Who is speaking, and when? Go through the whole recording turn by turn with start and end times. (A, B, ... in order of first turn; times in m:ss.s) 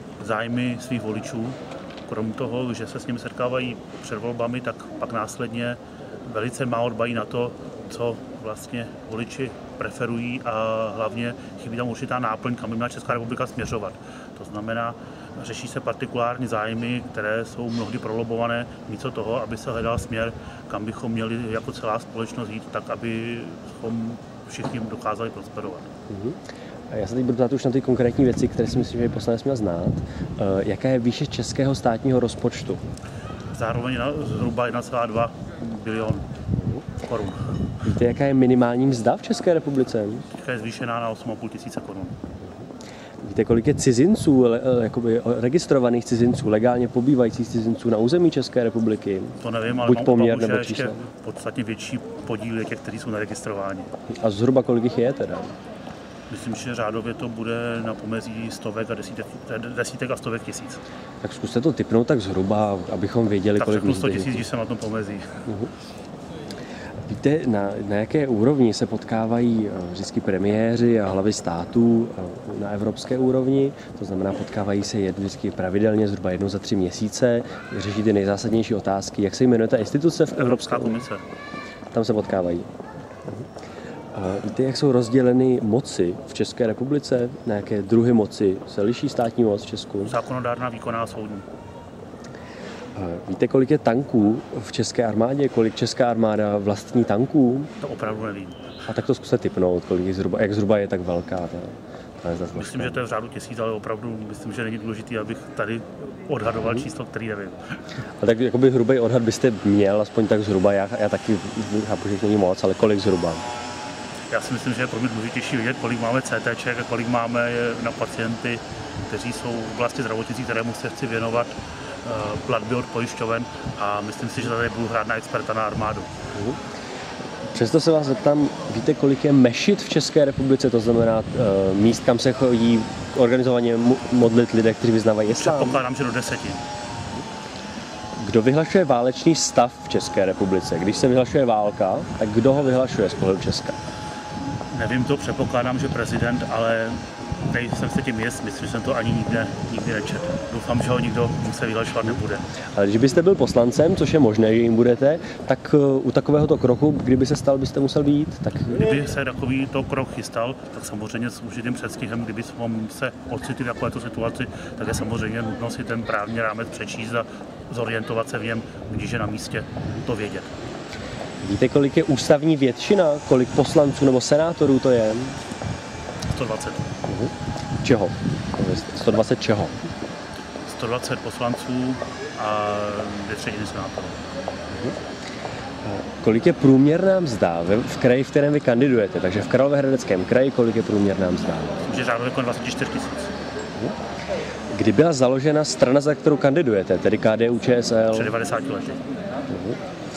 0:00.2-0:25.9 A
0:26.1-0:32.8 B
0:33.5-0:36.3 A
0:36.6-0:36.9 B
0:37.0-0:37.6 A
0:37.8-0:40.3 B
0:40.3-0:42.2 A
0:43.2-0:51.0 B
0:49.4-0:53.9 A
0:54.1-0:55.5 B
0:56.3-1:00.8 A
1:01.2-1:04.4 B
1:03.6-1:05.5 A
1:07.1-1:21.1 B
1:20.3-1:21.2 A
1:21.9-1:22.7 B
1:24.1-1:30.2 B
1:30.0-1:31.5 A
1:33.0-1:37.7 B
1:37.8-1:38.6 A
1:38.9-1:43.0 B
1:42.6-1:47.8 A
1:48.2-1:53.5 B
1:54.3-2:06.1 A
2:06.3-2:06.6 B
2:07.5-2:15.8 B
2:15.4-2:16.7 A
2:18.2-2:23.8 B
2:24.7-2:32.5 A
2:32.7-2:38.8 B
2:38.8-2:50.5 A
2:51.4-2:55.4 B
2:56.3-2:56.9 A
2:57.1-2:59.8 B
3:00.7-3:04.2 A
3:04.7-3:05.0 B
3:05.8-3:11.9 B
3:11.9-3:13.3 A
3:14.7-3:18.3 B
3:18.1-3:19.0 A
3:19.5-3:19.8 B